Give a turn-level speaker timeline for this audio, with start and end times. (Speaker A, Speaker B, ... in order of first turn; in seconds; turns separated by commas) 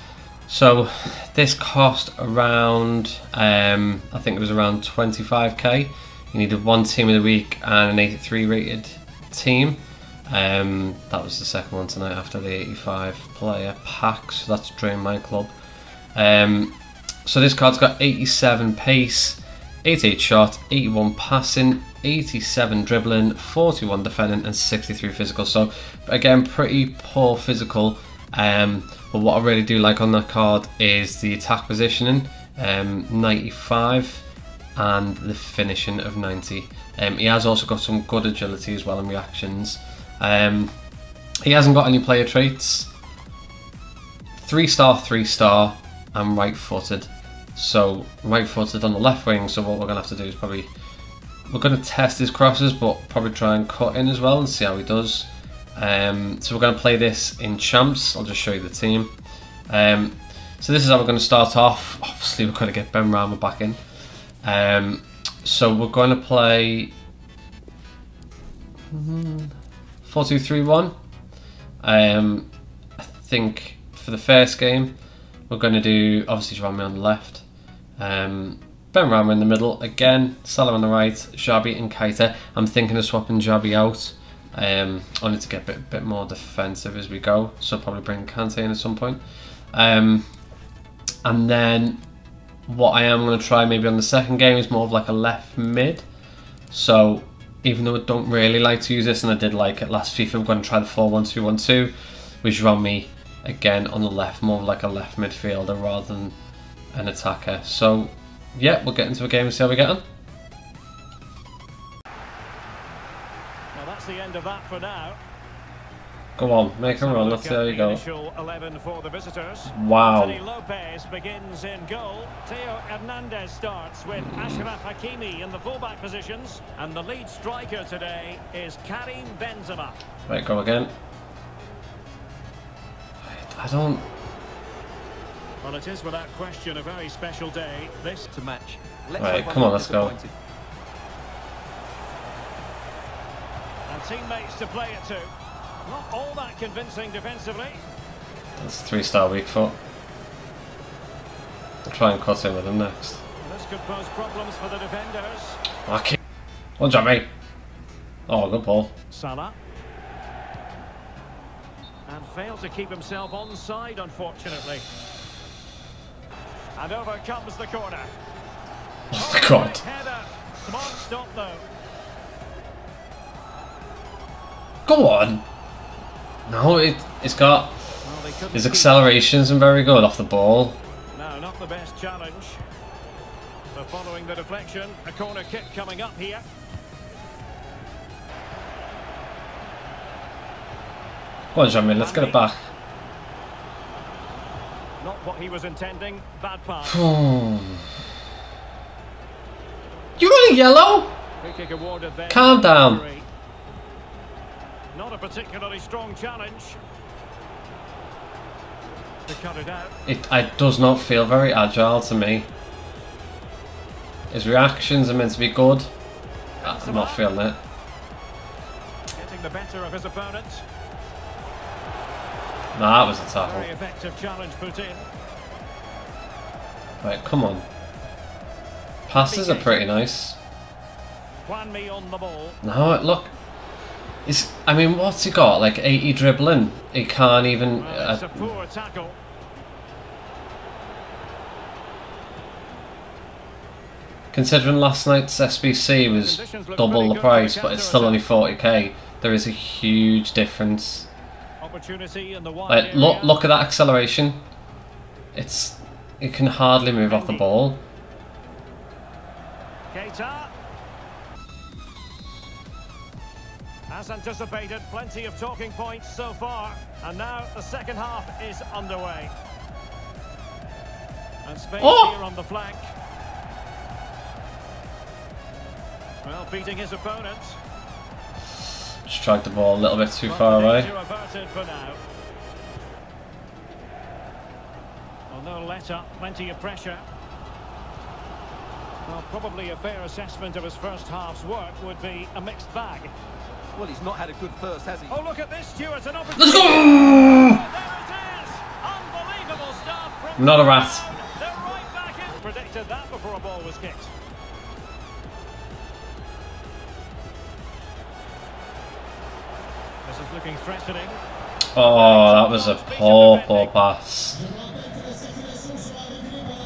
Speaker A: 0.5-15.5, Speaker A: 16.1-16.7, Speaker A: 17.2-34.2, Speaker A: 34.8-40.7, Speaker A: 41.4-42.9, Speaker A: 44.4-50.7, Speaker A: 51.5-59.1, Speaker A: 59.7-63.8, Speaker A: 64.4-66.9, Speaker A: 68.9-70.9, Speaker A: 71.8-72.5, Speaker A: 73.0-74.9, Speaker A: 75.5-77.4, Speaker A: 78.0-89.2, Speaker A: 89.7-90.2, Speaker A: 91.2-92.0, Speaker A: 92.7-96.0, Speaker A: 96.7-106.3, Speaker A: 106.9-110.0, Speaker B: 113.7-115.2, Speaker A: 116.4-118.0, Speaker B: 116.9-130.0, Speaker A: 119.7-120.4, Speaker A: 124.1-124.6, Speaker A: 130.3-130.9, Speaker A: 133.3-134.1, Speaker B: 135.6-138.3, Speaker C: 138.3-140.3, Speaker A: 139.2-140.1, Speaker B: 143.9-145.3, Speaker B: 145.8-147.8, Speaker A: 148.6-149.8, Speaker A: 151.8-153.2, Speaker B: 153.4-155.6, Speaker A: 155.8-156.2, Speaker A: 156.8-157.3, Speaker A: 158.3-158.9, Speaker B: 159.1-159.6, Speaker B: 162.1-164.8, Speaker B: 166.8-168.1, Speaker A: 169.1-169.8, Speaker B: 169.1-171.7, Speaker A: 174.8-175.4, Speaker A: 176.5-177.8, Speaker B: 178.0-179.0, Speaker A: 178.5-180.8, Speaker B: 181.1-182.6, Speaker B: 183.7-186.4, Speaker A: 191.5-192.6, Speaker B: 191.9-192.4, Speaker B: 195.0-197.1, Speaker A: 196.9-197.8, Speaker A: 200.2-201.1, Speaker B: 201.4-203.2, Speaker A: 202.3-203.0, Speaker B: 204.9-206.8, Speaker B: 209.3-209.9, Speaker A: 210.1-212.5, Speaker A: 214.3-215.9, Speaker B: 216.6-217.3, Speaker A: 216.6-217.6, Speaker B: 219.1-220.6, Speaker A: 222.7-223.7, Speaker B: 223.4-225.1, Speaker A: 227.0-227.6, Speaker A: 229.1-230.4, Speaker B: 229.1-229.8, Speaker B: 231.4-232.6, Speaker A: 232.6-233.3, Speaker A: 234.2-238.6, Speaker B: 237.8-239.2, Speaker A: 244.3-251.1, Speaker B: 246.1-248.2, Speaker B: 251.6-253.4, Speaker A: 252.7-254.4, Speaker A: 255.3-257.8, Speaker B: 257.1-257.5, Speaker B: 259.9-260.5, Speaker B: 263.9-269.3, Speaker B: 271.4-272.9, Speaker A: 271.8-272.1, Speaker B: 276.2-277.6, Speaker A: 279.1-280.9, Speaker B: 280.2-282.0, Speaker B: 285.3-287.0, Speaker B: 289.1-293.1, Speaker C: 293.7-295.2, Speaker B: 295.1-304.1, Speaker A: 296.4-297.6, Speaker A: 300.4-301.0, Speaker B: 310.0-311.2, Speaker A: 311.7-314.5, Speaker B: 311.8-313.7